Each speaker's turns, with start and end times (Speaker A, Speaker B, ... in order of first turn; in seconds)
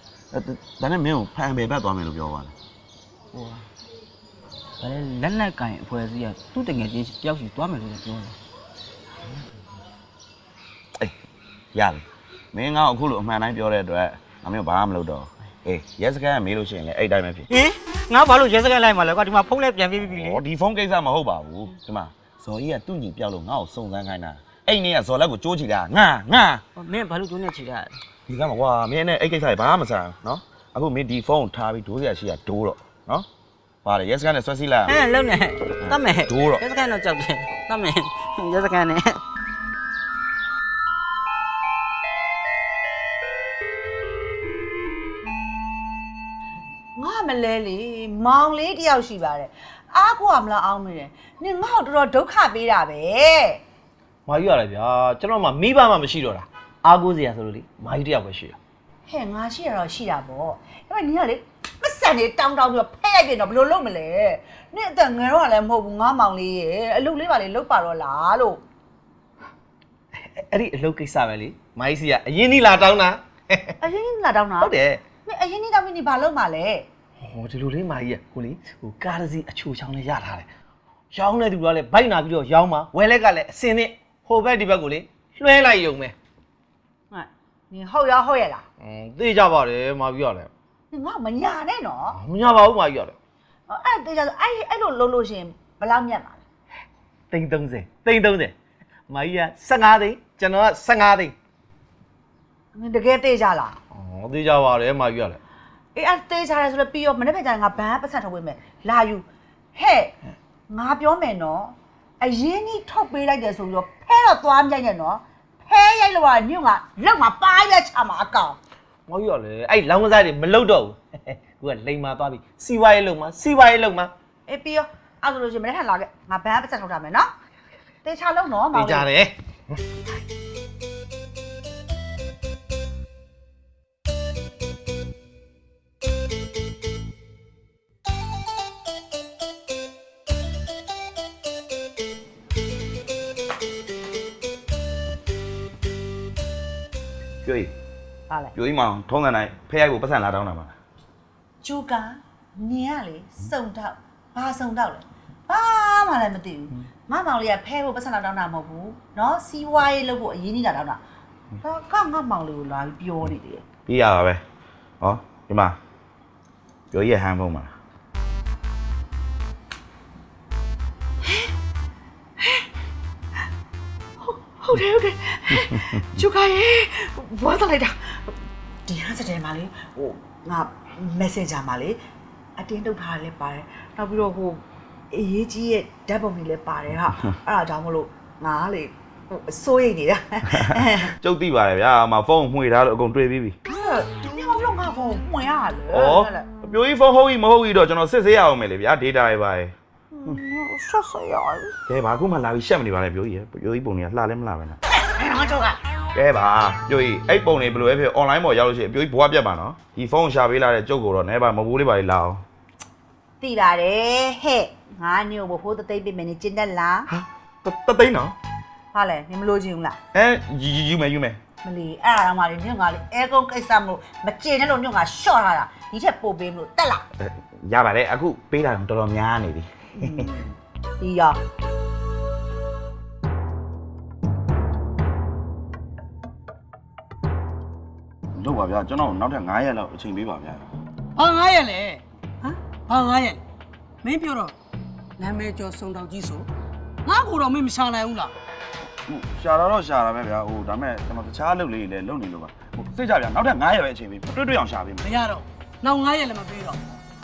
Speaker A: 0.3-2.5, 11.7-17.5, 19.9-26.6, 28.3-33.3, 33.8-35.1, 35.8-36.6, 147.4-147.7, 148.5-150.7, 163.9-164.4, 165.0-165.8, 166.9-167.7, 190.6-193.6, 195.9-199.7, 201.8-204.8, 206.1-212.4, 217.1-218.3, 220.1-221.4, 227.2-230.1, 238.3-240.6, 249.1-255.1
Speaker B: 3.3-3.6, 4.8-8.3, 26.8-28.0, 34.9-39.2
Speaker C: 47.0-53.6, 59.1-68.6, 73.8-74.7, 75.2-76.8, 87.1-88.6, 90.9-92.2, 93.7-96.4, 102.7-103.8, 105.9-110.1, 110.7-118.6, 124.5-127.3, 128.0-129.1, 148.3-148.5, 151.6-161.0, 161.6-163.6, 172.4-172.7, 174.2-182.0, 182.6-191.1, 193.7-196.4, 205.0-205.8, 213.4-217.1, 218.9-220.0, 221.6-227.1, 230.0-230.4, 231.0-231.4
Speaker D: 54.2-58.6, 70.1-73.8, 74.6-75.0, 77.2-80.5, 81.1-86.1, 88.8-90.5, 92.1-93.2, 97.3-98.5, 99.1-101.3, 103.9-105.4, 119.1-124.1, 128.7-129.8
Speaker E: 241.2-243.4, 244.0-244.5, 245.2-246.5, 247.1-248.3, 255.0-256.8